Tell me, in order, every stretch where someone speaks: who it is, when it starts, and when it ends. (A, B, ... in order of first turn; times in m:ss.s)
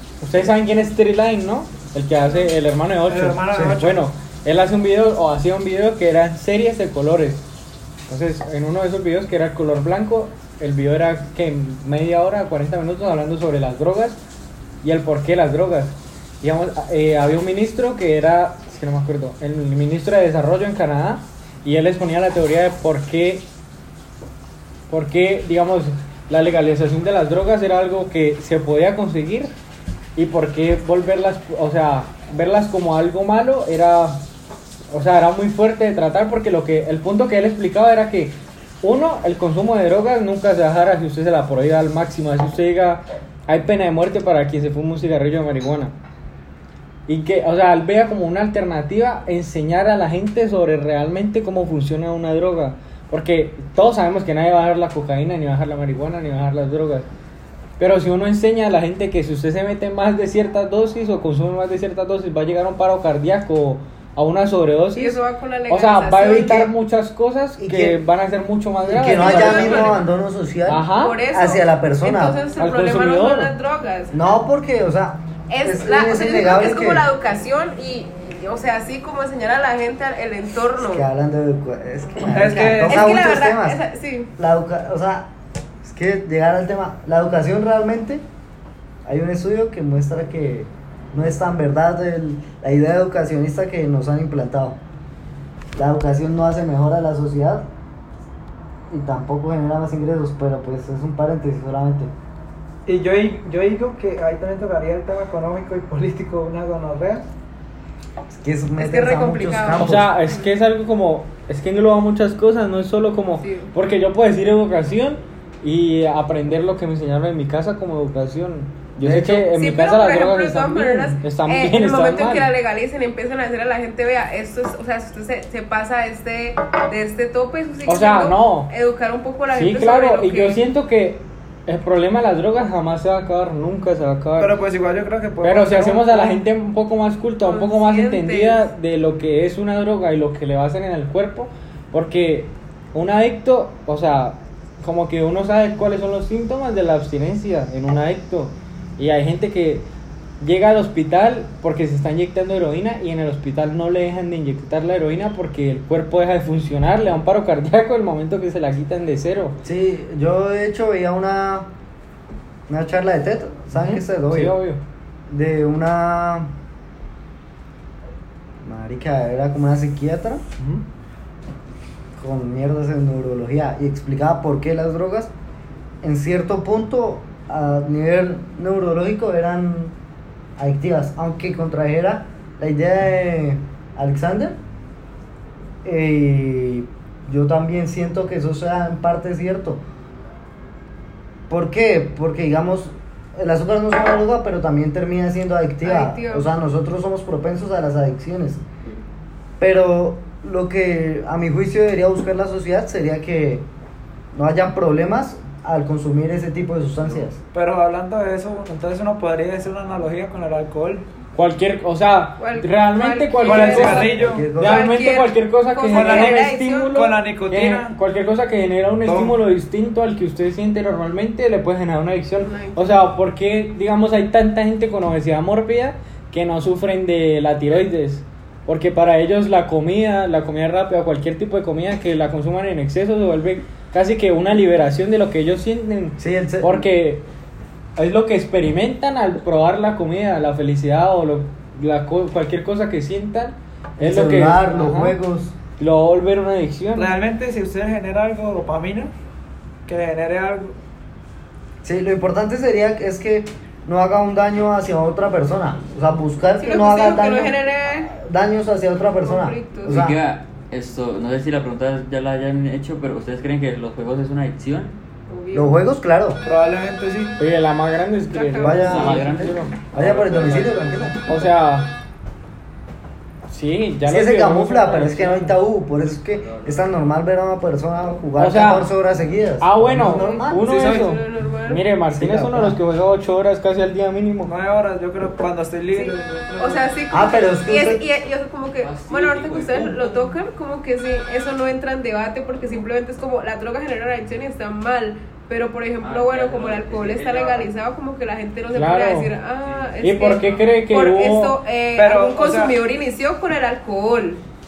0:00.2-0:07.4 A
0:03.1-0:04.1 B
0:03.5-0:03.8 C
0:08.1-0:14.2 A
0:14.8-0:23.4 A
0:24.9-0:29.5 A
0:30.2-0:34.2 A
0:34.9-0:45.9 A
0:47.1-0:57.1 A
0:57.8-1:10.0 A
1:05.0-1:06.6 D
1:07.6-1:08.0 C
1:08.8-1:12.4 C
1:09.1-1:10.1 D
1:10.7-1:11.2 A
1:11.0-1:14.1 D
1:12.6-1:13.5 A
1:14.1-1:17.1 C
1:15.5-1:21.1 D
1:20.8-1:23.8 C
1:22.3-1:23.0 B
1:22.9-1:24.3 D
1:24.4-1:25.3 C
1:25.8-1:28.2 C
1:29.0-1:34.8 C
1:35.8-1:37.7 C
1:38.9-1:42.1 C
1:42.9-1:47.2 B
1:48.3-1:50.1 C
1:48.8-1:50.5 D
1:49.8-2:02.5 A
1:53.4-1:53.7 D
1:59.0-1:59.5 C
1:59.5-2:10.6 D
2:07.8-2:08.7 A
2:09.5-2:14.5 A
2:14.4-2:16.4 B
2:15.4-2:29.9 A
2:17.4-2:18.7 D
2:30.4-2:39.6 A
2:39.6-2:41.7 C
2:42.7-2:44.6 C
2:43.7-2:44.8 A
2:45.3-2:46.5 C
2:48.6-2:50.4 C
2:50.6-2:50.8 A
2:52.2-2:55.3 C
2:56.0-2:59.9 C
3:00.6-3:04.6 C
3:05.8-3:09.8 C
3:11.5-3:18.6 C
3:15.8-3:16.5 D
3:19.6-3:23.6 C
3:24.3-3:27.4 C
3:27.5-3:31.0 B
3:31.3-3:57.3 A
3:32.4-3:36.9 D
3:33.4-3:34.5 B
3:34.0-3:34.9 C
3:35.9-3:37.9 B
3:39.0-3:39.4 B
3:42.4-3:43.1 D
3:56.2-3:56.9 C
3:58.0-4:05.2 A
4:04.0-4:05.6 C
4:05.8-4:07.2 A
4:07.0-4:09.1 B
4:09.9-4:10.7 B
4:11.8-4:20.2 C
4:16.6-4:18.1 D
4:19.2-4:20.1 D
4:19.9-4:25.0 E
4:25.3-4:25.8 D
4:25.5-4:26.4 C
4:26.4-4:27.4 B
4:27.4-4:31.9 A
4:28.3-4:29.2 D
4:28.6-4:31.2 C
4:28.9-4:29.5 E
4:33.5-4:35.6 A
4:34.0-4:40.6 C
4:38.4-4:38.9 A
4:39.6-4:44.5 A
4:40.0-4:41.8 D
4:40.7-4:41.1 B
4:42.1-4:42.8 C
4:44.4-4:46.9 B
4:45.9-5:04.4 D
4:47.1-4:48.0 C
4:48.8-4:50.3 E
4:56.0-4:57.7 E
4:58.7-4:59.3 A
5:00.0-5:01.6 A
5:02.0-5:02.7 B